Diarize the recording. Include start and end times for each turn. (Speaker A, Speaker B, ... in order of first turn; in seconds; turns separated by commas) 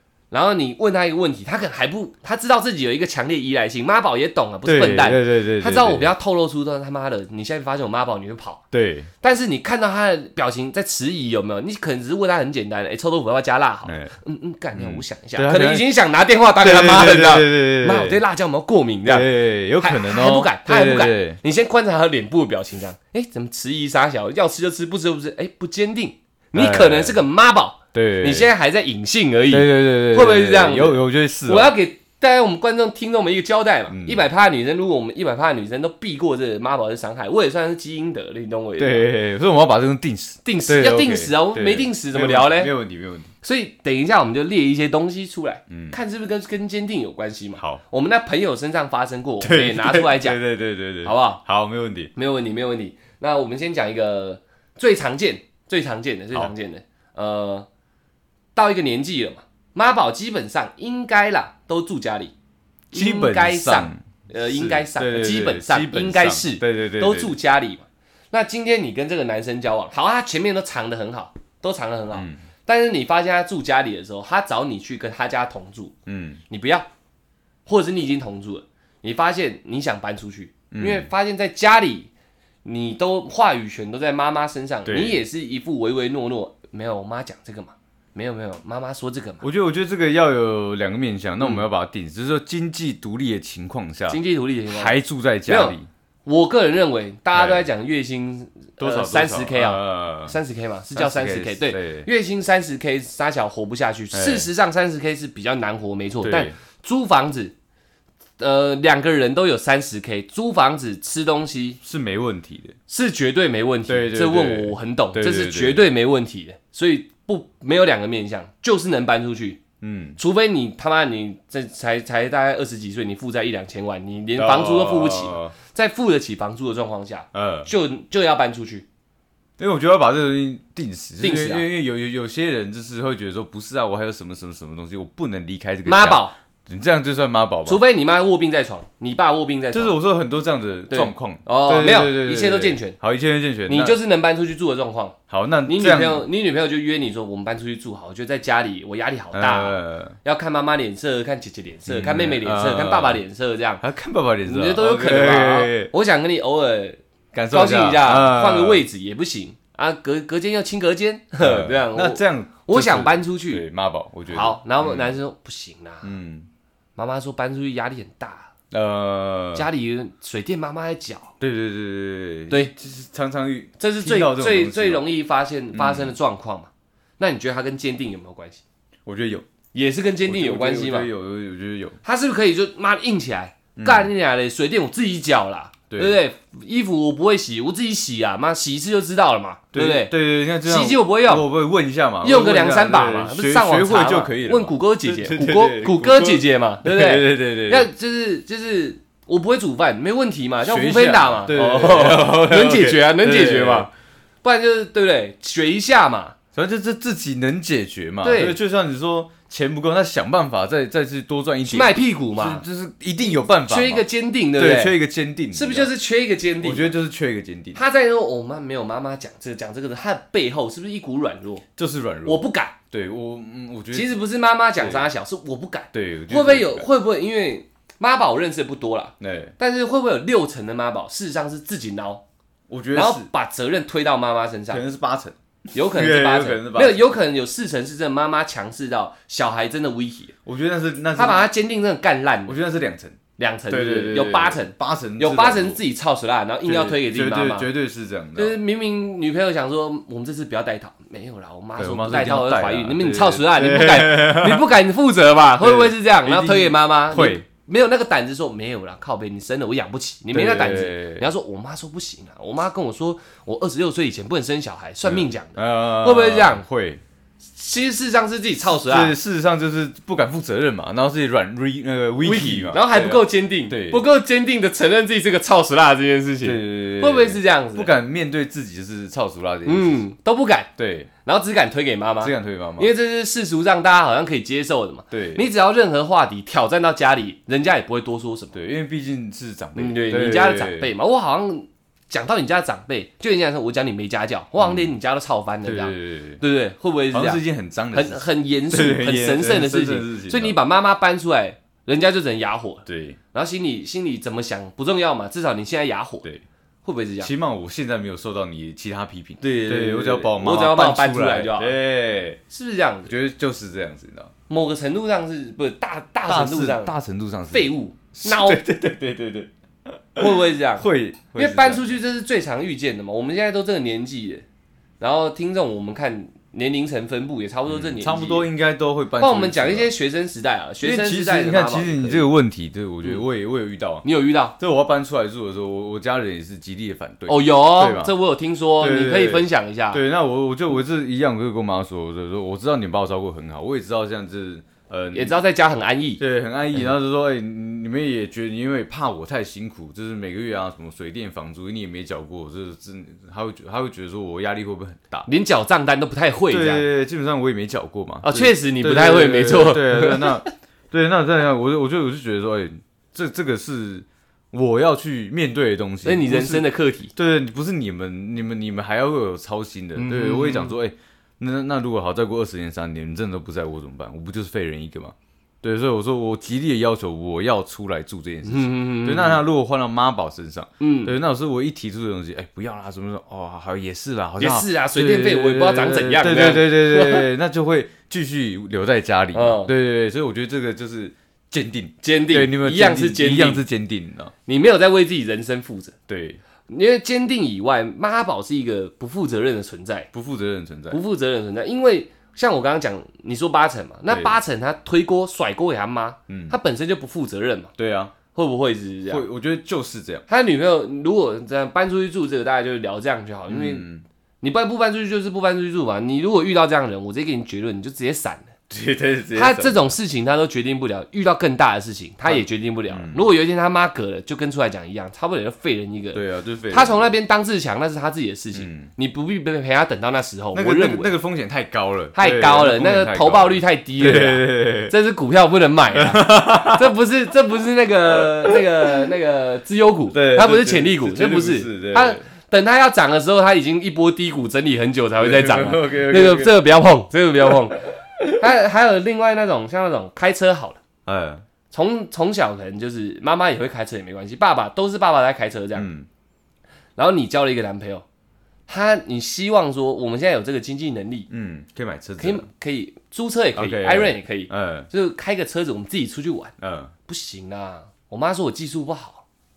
Speaker A: 0.3-8.6, Speaker B: 4.6-6.1, Speaker B: 8.7-9.1, Speaker A: 9.2-19.3, Speaker B: 13.8-14.1, Speaker B: 14.8-15.8, Speaker B: 16.6-18.2, Speaker B: 19.0-21.4, Speaker A: 19.8-39.1, Speaker B: 26.5-27.2, Speaker B: 27.9-28.5, Speaker B: 29.5-31.7, Speaker B: 33.9-34.2, Speaker B: 38.8-43.3, Speaker A: 40.4-42.7, Speaker A: 43.4-50.4, Speaker B: 45.7-46.0, Speaker B: 49.4-52.1, Speaker A: 51.0-51.4, Speaker A: 52.1-57.7, Speaker A: 58.5-62.3, Speaker B: 62.9-67.3, Speaker A: 62.9-75.9, Speaker B: 72.1-72.4, Speaker B: 76.1-76.4, Speaker A: 76.5-76.8, Speaker A: 77.7-82.1, Speaker B: 80.7-81.1, Speaker A: 82.6-89.4, Speaker B: 84.8-85.2, Speaker B: 89.4-95.9, Speaker A: 94.1-94.9, Speaker A: 95.5-107.5, Speaker B: 97.3-97.7, Speaker B: 98.8-100.3, Speaker B: 100.9-102.1, Speaker B: 104.1-104.5, Speaker B: 106.2-106.5, Speaker A: 108.4-111.8, Speaker B: 111.8-112.8, Speaker A: 112.9-119.6, Speaker B: 113.9-115.8, Speaker B: 119.8-120.2, Speaker A: 120.2-128.8, Speaker B: 124.3-125.5, Speaker B: 127.3-127.7, Speaker B: 129.6-137.8, Speaker A: 131.2-131.7, Speaker A: 135.8-136.3, Speaker A: 137.7-139.9, Speaker B: 139.7-144.0, Speaker A: 140.9-143.0, Speaker A: 143.7-153.8, Speaker B: 145.3-146.2, Speaker B: 149.3-150.1, Speaker B: 151.9-153.2, Speaker B: 153.8-155.9, Speaker A: 154.4-157.0, Speaker B: 157.3-158.8, Speaker A: 157.5-163.6, Speaker B: 161.4-165.2, Speaker A: 164.3-166.1, Speaker B: 166.0-166.5, Speaker A: 166.9-168.5, Speaker B: 168.7-169.7, Speaker A: 169.5-171.3, Speaker B: 171.4-175.1, Speaker A: 173.8-178.6, Speaker B: 175.7-176.1, Speaker B: 179.1-179.4, Speaker A: 179.7-181.1, Speaker B: 180.2-182.0, Speaker A: 182.0-190.1, Speaker B: 183.8-184.1, Speaker B: 185.9-186.2, Speaker B: 189.7-197.9, Speaker A: 190.6-191.4, Speaker A: 192.2-203.9, Speaker B: 200.6-203.9, Speaker A: 204.4-206.3, Speaker B: 206.5-215.9, Speaker A: 208.2-208.6, Speaker A: 211.7-212.6, Speaker A: 213.7-214.9, Speaker A: 215.5-216.9, Speaker B: 216.6-217.8, Speaker A: 217.7-221.6, Speaker B: 221.8-224.1, Speaker A: 222.2-222.8, Speaker A: 223.9-232.2, Speaker B: 224.8-225.1, Speaker B: 225.9-226.9, Speaker B: 229.2-229.5, Speaker B: 232.7-233.3, Speaker A: 232.9-234.8, Speaker B: 234.7-237.1, Speaker A: 235.7-240.3, Speaker B: 240.4-241.4, Speaker A: 241.1-242.6, Speaker B: 242.4-245.8, Speaker A: 243.4-247.7, Speaker B: 246.6-248.6, Speaker A: 248.3-266.6, Speaker B: 251.8-254.7, Speaker B: 255.6-257.4, Speaker B: 260.3-261.2, Speaker B: 265.0-267.0, Speaker A: 267.6-269.1, Speaker B: 268.8-274.0, Speaker A: 272.2-277.9, Speaker B: 276.4-280.0, Speaker A: 279.6-280.7, Speaker B: 280.8-281.1, Speaker A: 281.2-288.6, Speaker B: 282.2-282.9, Speaker B: 285.1-285.4, Speaker B: 288.5-290.9, Speaker A: 289.8-306.2, Speaker B: 294.6-294.9, Speaker B: 295.6-296.4, Speaker B: 297.1-300.6, Speaker B: 302.9-303.2, Speaker A: 306.8-307.3, Speaker B: 307.2-312.4, Speaker A: 309.4-311.8, Speaker A: 312.5-313.1, Speaker B: 313.1-314.3, Speaker A: 314.5-316.9, Speaker B: 316.2-317.7, Speaker A: 317.5-318.6, Speaker B: 318.2-319.5, Speaker B: 320.1-321.8, Speaker A: 320.2-324.4, Speaker A: 325.0-328.5, Speaker B: 327.7-329.9, Speaker A: 329.2-332.3, Speaker B: 330.8-334.0, Speaker A: 334.0-334.5, Speaker B: 334.6-338.1, Speaker A: 337.3-340.0, Speaker B: 338.8-345.4, Speaker A: 345.1-346.2, Speaker B: 346.2-355.3, Speaker A: 355.3-356.9, Speaker B: 356.5-394.3, Speaker A: 358.2-360.5, Speaker A: 366.0-367.1, Speaker A: 369.9-370.7, Speaker A: 378.4-379.4, Speaker A: 380.8-381.1, Speaker A: 384.4-387.3, Speaker A: 389.3-389.7, Speaker A: 392.0-393.6, Speaker A: 394.4-395.9, Speaker B: 396.1-396.4, Speaker A: 396.7-400.1, Speaker B: 400.1-401.0, Speaker A: 400.9-407.7, Speaker B: 404.1-404.4, Speaker B: 406.3-406.6, Speaker B: 407.8-408.1, Speaker A: 408.3-409.2, Speaker B: 409.1-410.2, Speaker A: 410.3-413.9, Speaker B: 413.5-414.0, Speaker A: 414.4-418.5, Speaker B: 418.7-419.9, Speaker A: 419.3-431.1, Speaker B: 422.2-423.3, Speaker B: 426.1-427.1, Speaker B: 428.5-428.9, Speaker B: 430.5-434.9, Speaker A: 432.1-450.8, Speaker B: 435.9-436.9, Speaker B: 438.2-438.6, Speaker B: 440.1-442.2, Speaker B: 445.2-446.6, Speaker B: 451.1-451.4, Speaker A: 451.7-455.9, Speaker B: 455.7-456.1, Speaker A: 457.0-458.0, Speaker A: 458.7-461.3, Speaker B: 461.3-462.4, Speaker A: 462.2-466.5, Speaker B: 463.5-464.9, Speaker B: 466.6-466.9, Speaker A: 467.1-469.2